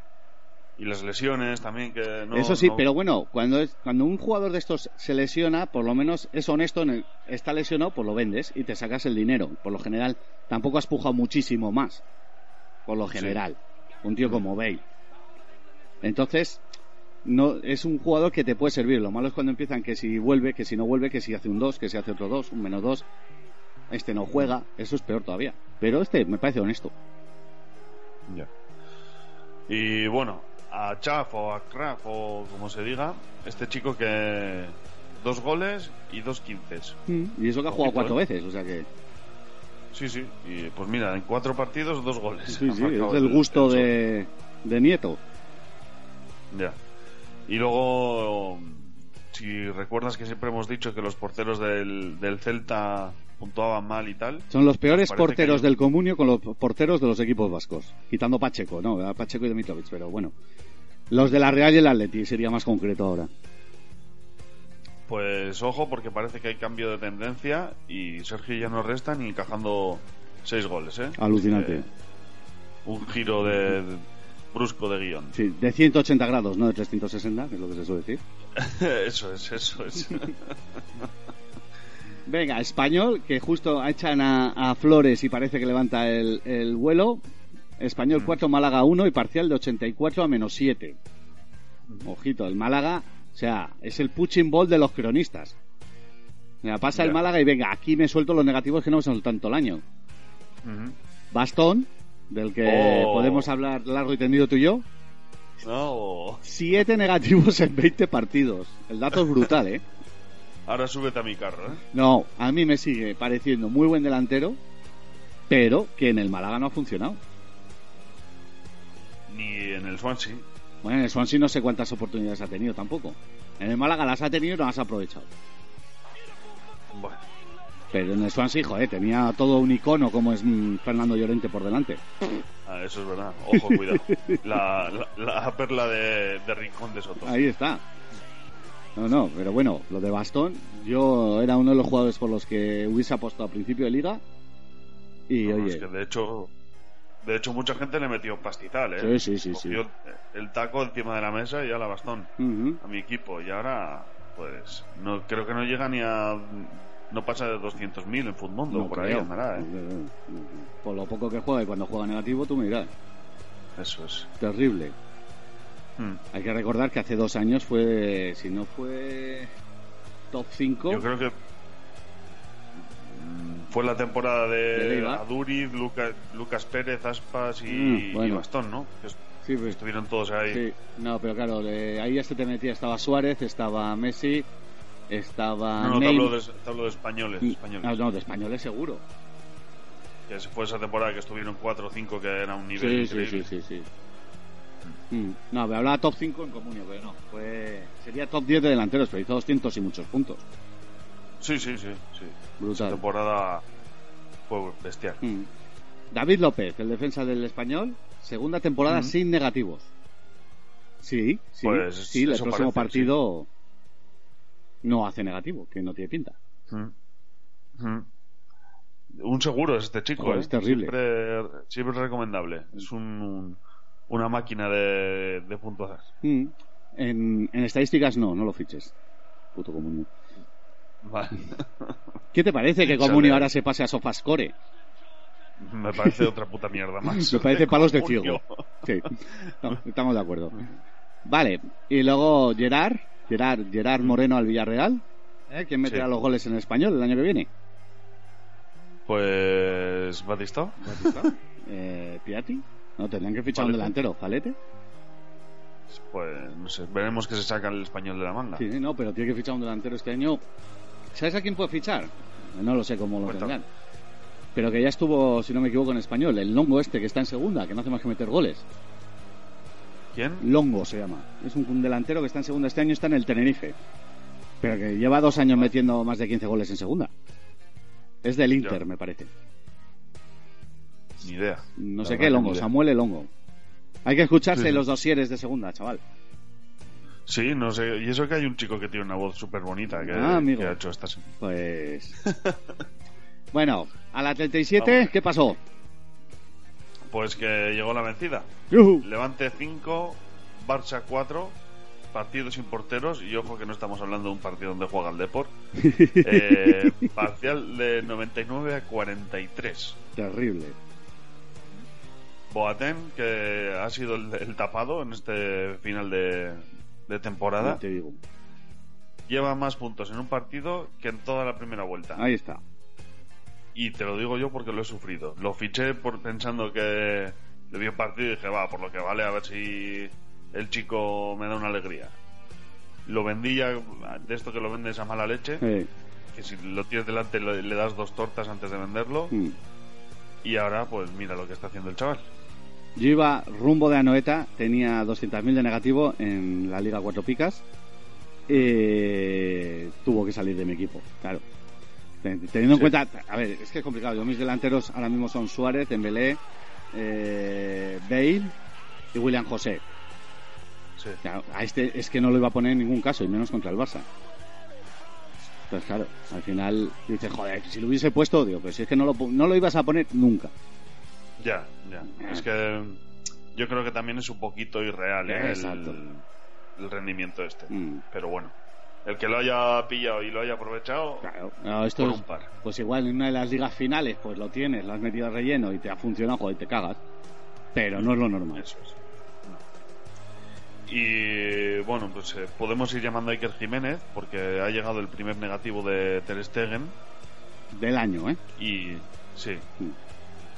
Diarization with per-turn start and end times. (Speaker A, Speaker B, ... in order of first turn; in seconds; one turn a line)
Speaker A: 0.8-2.9
Speaker B: 2.3-12.0
Speaker B: 12.8-14.8
Speaker B: 16.0-16.6
Speaker B: 17.2-23.0
Speaker B: 23.9-26.9
Speaker A: 29.7-37.0
Speaker B: 37.1-38.9
Speaker A: 37.7-38.2
Speaker A: 39.9-43.9
Speaker B: 42.5-45.2
Speaker A: 46.5-46.8
Speaker A: 47.5-55.7
Speaker B: 54.5-60.3
Speaker B: 61.1-63.3
Speaker A: 65.1-71.8
Speaker B: 71.2-71.9
Speaker A: 72.8-75.3
Speaker B: 75.3-78.2
Speaker A: 78.5-81.0
Speaker B: 82.2-87.2
Speaker B: 87.8-91.0
Speaker B: 92.0-95.5
Speaker B: 96.6-99.8
Speaker A: 100.6-101.0
Speaker B: 101.3-104.8
Speaker A: 102.6-103.5
Speaker A: 105.6-106.4
Speaker B: 106.4-109.8
Speaker A: 110.7-111.8
Speaker B: 111.9-114.6
Speaker B: 115.5-117.2
Speaker A: 119.3-120.4
Speaker B: 120.8-125.3
Speaker A: 126.9-127.2
Speaker B: 127.9-132.0
Speaker A: 132.7-137.4
Speaker B: 133.6-134.4
Speaker B: 137.2-137.8
Speaker B: 139.0-144.2
Speaker B: 145.3-145.8
Speaker A: 145.4-146.5
Speaker A: 147.2-159.7
Speaker B: 149.0-149.8
Speaker B: 152.4-152.8
Speaker B: 158.7-162.9
Speaker A: 163.8-164.3
Speaker B: 164.4-164.9
Speaker B: 166.3-169.5
Speaker B: 170.3-171.0
Speaker A: 170.9-171.4
Speaker A: 173.0-180.6
Speaker B: 174.7-175.2
Speaker B: 177.7-178.4
Speaker B: 179.4-179.8
Speaker B: 180.5-184.5
Speaker B: 185.1-186.3
Speaker A: 185.8-188.0
Speaker B: 187.4-189.0
Speaker A: 190.3-193.4
Speaker B: 192.8-193.9
Speaker B: 195.1-200.4
Speaker A: 201.4-203.6
Speaker B: 202.6-203.0
Speaker A: 204.5-205.2
Speaker B: 205.2-205.5
Speaker B: 206.1-209.9
Speaker A: 208.9-209.1
Speaker B: 211.0-213.5
Speaker A: 211.6-213.2
Speaker B: 214.8-216.4
Speaker A: 217.8-218.1
Speaker A: 219.1-226.1
Speaker B: 220.2-220.9
Speaker B: 226.2-228.9
Speaker B: 229.5-230.1
Speaker A: 231.0-231.9
Speaker B: 232.3-234.5
Speaker A: 232.8-233.5
Speaker A: 235.6-238.8
Speaker B: 237.1-240.7
Speaker A: 239.4-239.7
Speaker B: 241.2-247.5
Speaker A: 245.8-246.1
Speaker A: 249.1-251.3
Speaker B: 250.8-254.6
Speaker A: 253.5-253.9
Speaker A: 255.9-258.6
Speaker B: 258.6-260.4
Speaker B: 261.1-263.6
Speaker A: 263.2-263.6
Speaker B: 264.5-268.6
Speaker A: 270.1-270.5
Speaker B: 270.4-273.8
Speaker B: 274.6-277.1
Speaker B: 278.2-279.3
Speaker A: 281.2-282.7
Speaker B: 281.8-283.3
Speaker B: 284.0-286.0
Speaker A: 284.5-284.8
Speaker A: 287.3-291.3
Speaker B: 289.9-290.8
Speaker B: 291.4-292.1
Speaker A: 292.2-292.6
Speaker B: 293.5-295.6
Speaker A: 294.8-295.1
Speaker A: 297.1-301.6
Speaker B: 298.7-299.0
Speaker A: 302.1-305.6
Speaker B: 305.8-307.1
Speaker A: 306.2-310.0
Speaker B: 310.1-310.8
Speaker A: 312.5-317.8
Speaker B: 317.6-318.2
Speaker A: 319.3-322.2
Speaker B: 322.1-322.6
Speaker A: 323.7-332.1
Speaker A: 333.1-335.6
Speaker B: 335.6-335.9
Speaker A: 336.3-339.3
Speaker A: 340.4-342.3
Speaker B: 342.9-347.6
Speaker B: 348.5-351.4
Speaker B: 352.2-356.4
Speaker B: 356.9-358.5
Speaker B: 359.1-359.8
Speaker B: 361.2-364.1
Speaker B: 365.7-370.5
Speaker A: 371.4-373.0
Speaker B: 372.1-372.4
Speaker A: 373.5-376.2
Speaker B: 375.2-376.0
Speaker A: 376.8-378.5
Speaker B: 377.7-378.0
Speaker A: 379.0-381.3
Speaker B: 381.2-387.0
Speaker A: 382.0-382.5
Speaker B: 387.7-388.6
Speaker A: 388.0-389.6
Speaker A: 390.9-396.9
Speaker B: 397.7-398.4
Speaker A: 398.6-399.6